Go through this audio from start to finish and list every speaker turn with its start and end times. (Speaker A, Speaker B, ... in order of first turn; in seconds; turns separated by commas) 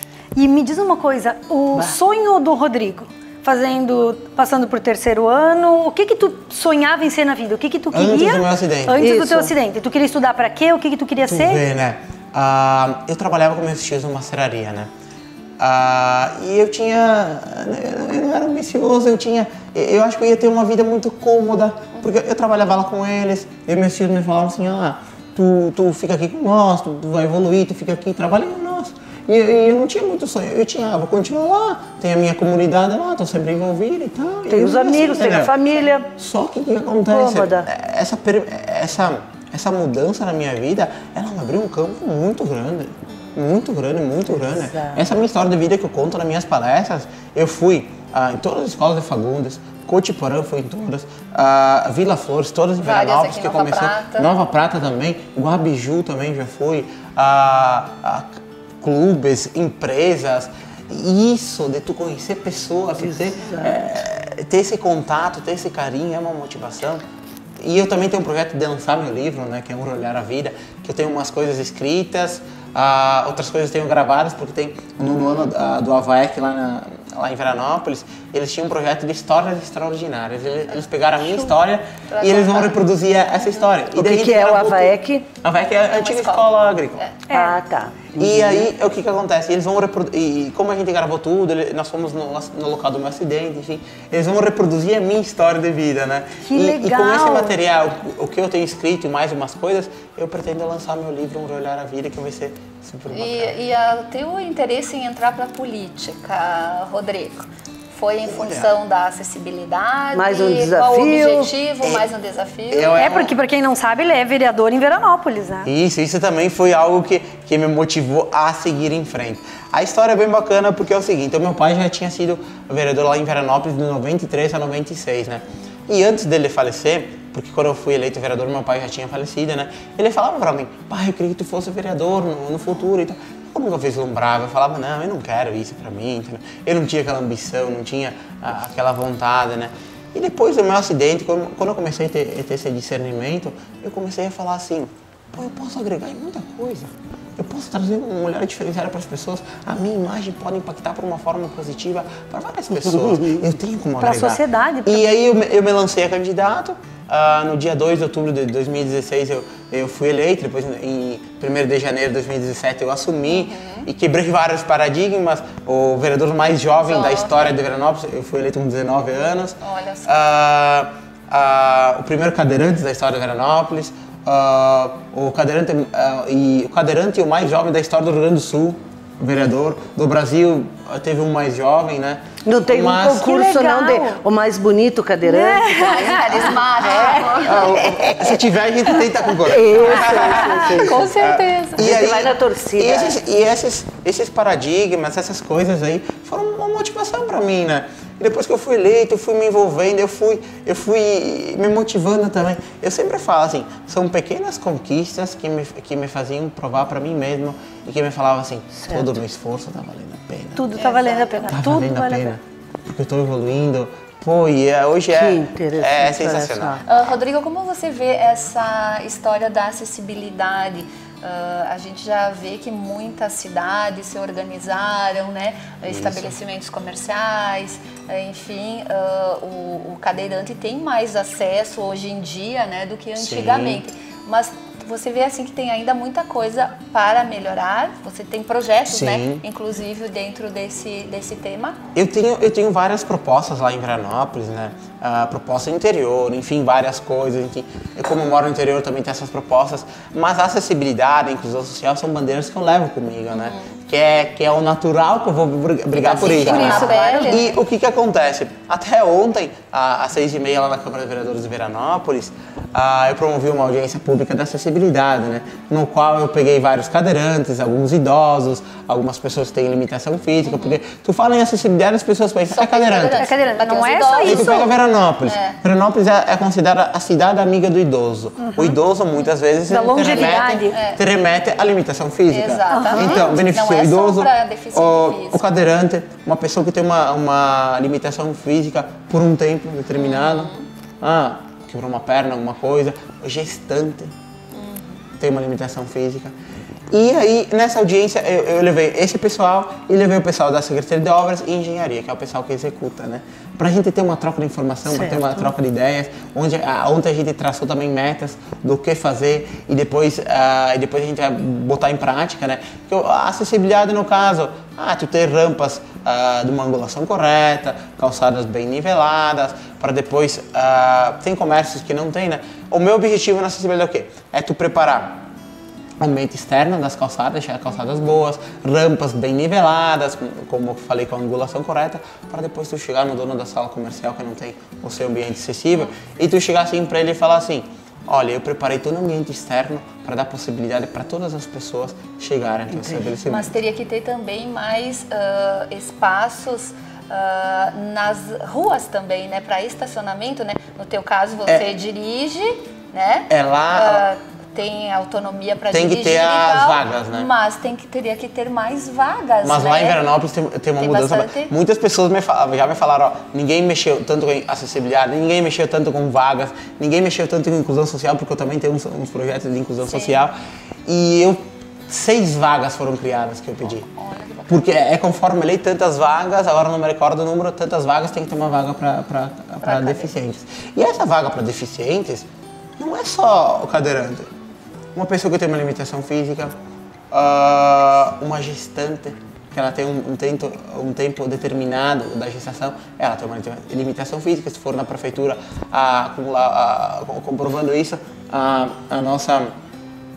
Speaker A: 0.4-11.6, Speaker B: 7.9-9.1, Speaker C: 9.0-9.5, Speaker B: 11.3-14.9, Speaker B: 15.6-35.5, Speaker C: 34.5-36.1, Speaker B: 36.1-67.0, Speaker C: 37.1-37.7, Speaker C: 44.4-45.0, Speaker D: 52.8-54.3, Speaker C: 63.0-63.8, Speaker B: 67.6-87.0, Speaker D: 82.1-82.8, Speaker C: 84.0-85.3, Speaker D: 85.8-87.2, Speaker A: 87.3-87.6, Speaker C: 87.3-88.7, Speaker B: 88.2-103.6, Speaker A: 96.4-97.5, Speaker D: 103.1-113.3, Speaker B: 108.2-108.7, Speaker C: 110.1-111.5, Speaker B: 111.8-112.1, Speaker B: 112.7-113.3, Speaker A: 113.0-115.7, Speaker B: 115.7-183.2, Speaker A: 154.0-155.1, Speaker D: 163.3-163.9, Speaker D: 166.8-167.5, Speaker D: 169.6-170.3, Speaker C: 182.4-185.9, Speaker A: 183.1-184.2, Speaker A: 185.2-187.2, Speaker D: 185.7-187.8, Speaker B: 187.4-210.7, Speaker C: 187.7-188.4, Speaker C: 189.4-190.9, Speaker A: 190.1-190.4, Speaker D: 190.6-192.0, Speaker C: 191.8-193.2, Speaker C: 208.8-209.1, Speaker A: 210.6-212.3, Speaker D: 210.8-211.6, Speaker B: 211.5-216.8, Speaker C: 215.1-216.8, Speaker D: 216.8-241.8, Speaker B: 225.9-226.4, Speaker B: 233.2-233.8, Speaker B: 238.9-239.4, Speaker B: 241.9-273.2, Speaker D: 253.3-253.7, Speaker D: 256.0-257.6, Speaker A: 256.1-257.3, Speaker C: 256.3-257.4, Speaker D: 270.4-270.8, Speaker D: 272.5-274.7, Speaker A: 273.1-274.7, Speaker B: 274.2-294.1, Speaker D: 275.2-275.6, Speaker A: 278.4-278.8, Speaker A: 279.7-280.8, Speaker D: 280.7-281.0, Speaker D: 282.3-285.4, Speaker A: 282.7-283.3, Speaker D: 289.9-290.7, Speaker D: 294.5-295.0, Speaker B: 295.2-296.3, Speaker B: 296.9-325.2, Speaker C: 304.9-305.5, Speaker B: 326.0-343.6, Speaker D: 343.2-360.0, Speaker B: 353.3-354.1, Speaker B: 355.7-357.3, Speaker B: 359.4-373.9, Speaker D: 360.8-361.5, Speaker D: 369.8-370.2, Speaker D: 373.7-374.9, Speaker B: 374.5-382.3, Speaker D: 379.6-380.1, Speaker B: 382.8-384.3, Speaker B: 384.9-386.5, Speaker B: 387.1-399.5